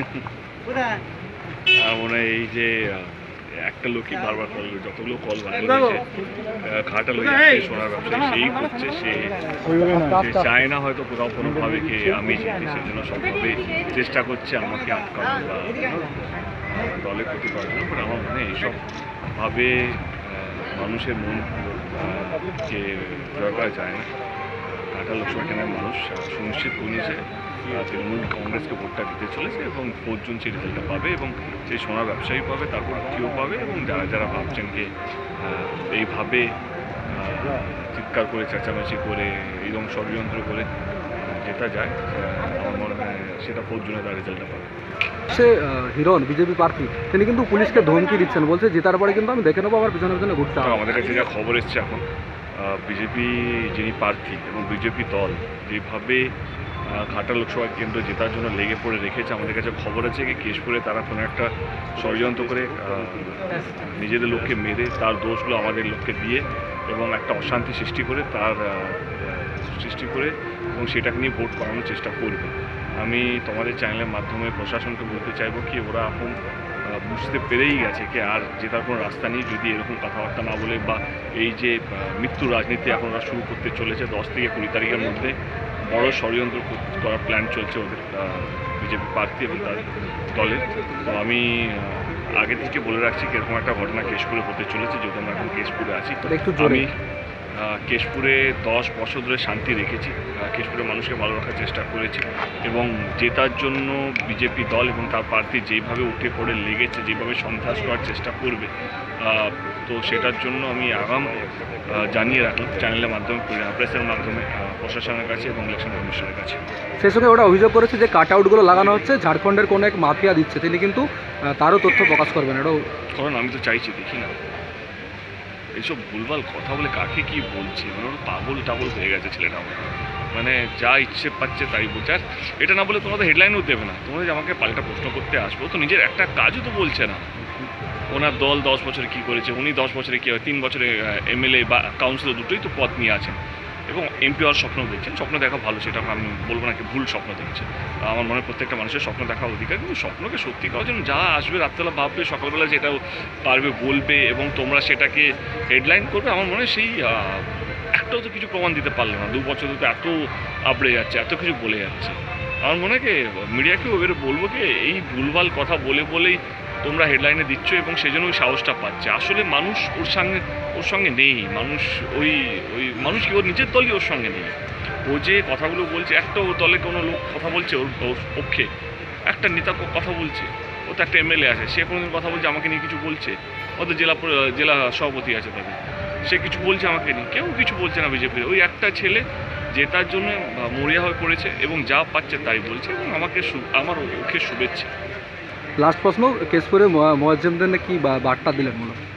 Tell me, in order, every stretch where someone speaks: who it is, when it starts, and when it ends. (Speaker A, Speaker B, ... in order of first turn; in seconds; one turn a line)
Speaker A: 1.8-6.0
Speaker A: 6.6-9.3
Speaker A: 9.8-16.0
Speaker A: 16.7-18.8
Speaker A: 19.3-24.1
Speaker A: 24.9-34.9
Speaker A: 35.4-36.5
Speaker A: 37.1-44.7
Speaker B: 45.3-50.9
Speaker A: 50.6-52.0
Speaker A: 52.6-56.3
Speaker A: 56.9-76.4
Speaker A: 76.9-85.3
Speaker A: 85.9-96.9
Speaker B: 96.2-96.9
Speaker A: 97.5-108.7
Speaker A: 109.2-116.6
Speaker B: 117.0-121.0
Speaker B: 121.6-122.8
Speaker A: 123.1-124.3
Speaker A: 125.8-137.2
Speaker A: 138.1-143.4
Speaker A: 143.9-160.2
Speaker A: 160.7-178.7
Speaker A: 179.3-189.2
Speaker A: 189.7-194.9
Speaker B: 195.8-199.0